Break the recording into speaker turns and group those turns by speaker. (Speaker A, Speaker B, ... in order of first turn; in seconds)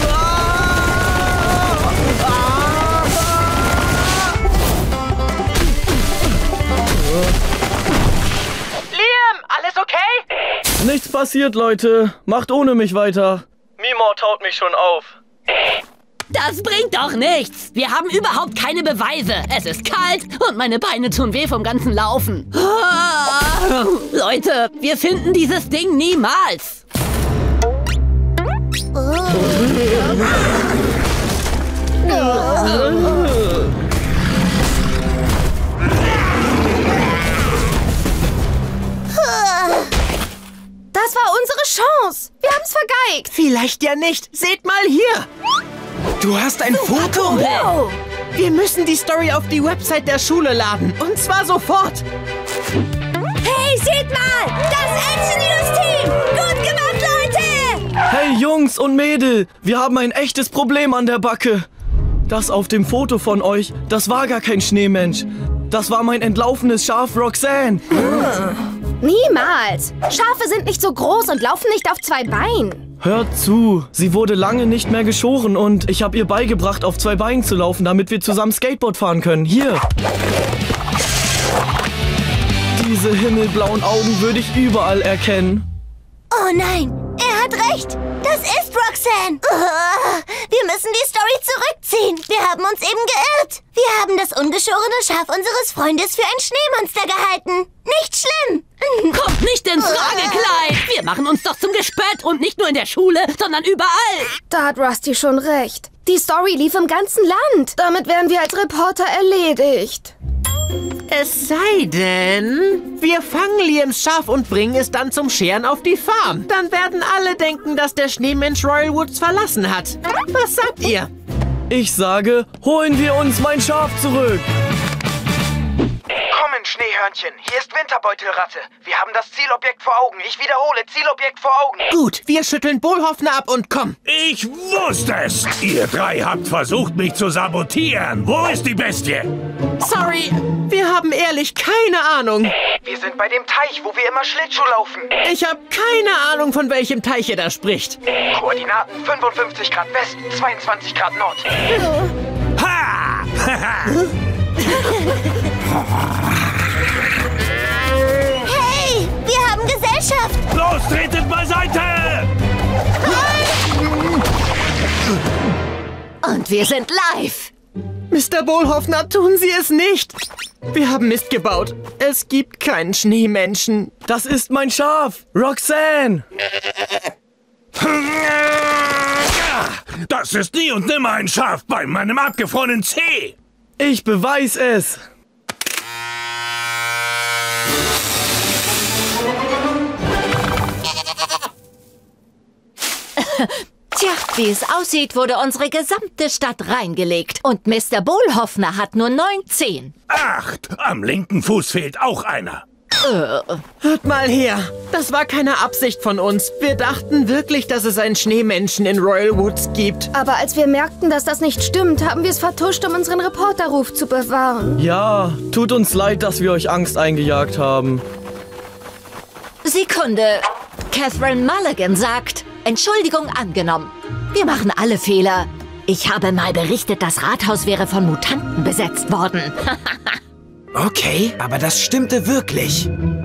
Speaker A: 8.9-10.2, 43.3-45.3, 48.3-52.0, 111.1-121.1, 131.9-134.0, 139.8-142.5, 145.2-148.0, 168.1-170.2, 170.7-173.9, 203.8-210.1
Speaker B: 10.8-15.2, 58.1-61.7, 62.3-67.9, 73.0-79.8, 82.8-85.7, 121.7-124.5, 174.1-176.2, 183.8-185.0, 214.8-218.0
Speaker C: 16.3-26.8, 47.0-47.7, 99.1-104.4
Speaker D: 29.0-29.7, 32.2-32.8, 39.1-39.9, 86.3-99.1, 99.9-100.2, 158.4-160.4
Speaker E: 40.9-43.3, 47.1-47.6, 53.5-56.5, 69.0-72.8, 104.5-110.2, 210.1-214.8
Speaker F: 46.2-47.6, 126.3-131.9, 142.8-145.1, 148.3-151.7, 230.7-232.9
Speaker G: 134.1-139.3, 152.6-153.9, 160.5-162.3, 177.8-178.8, 179.3-183.3, 200.1-202.6
Speaker H: 166.2-167.5, 193.2-199.9, 203.0-203.6, 219.6-230.0